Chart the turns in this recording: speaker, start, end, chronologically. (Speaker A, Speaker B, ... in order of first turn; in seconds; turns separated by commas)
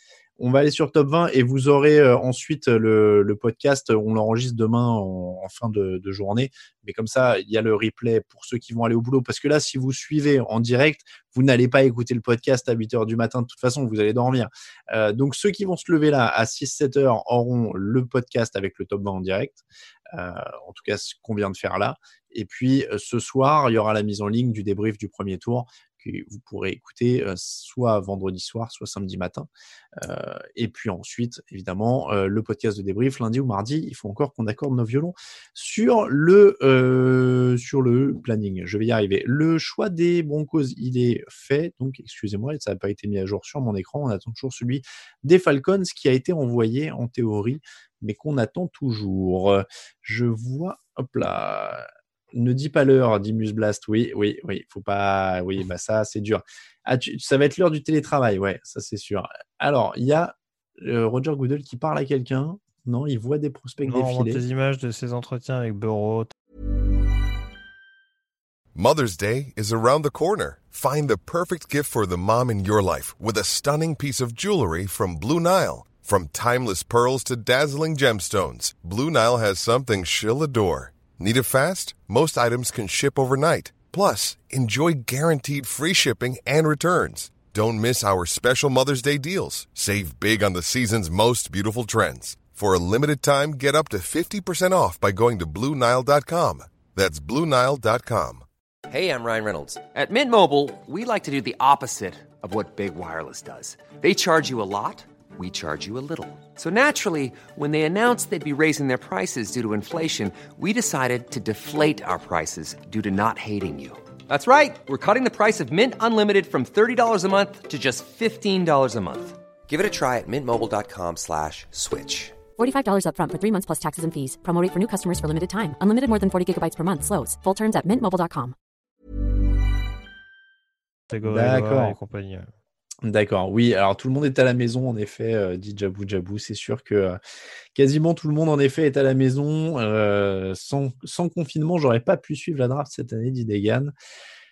Speaker A: 0.4-64.4, Speaker B: 63.8-66.3, Speaker C: 68.7-98.5, Speaker D: 98.9-122.4, Speaker E: 122.5-128.6, Speaker B: 131.1-132.5, Speaker A: 131.2-132.0, Speaker A: 133.0-137.2, Speaker A: 137.7-143.9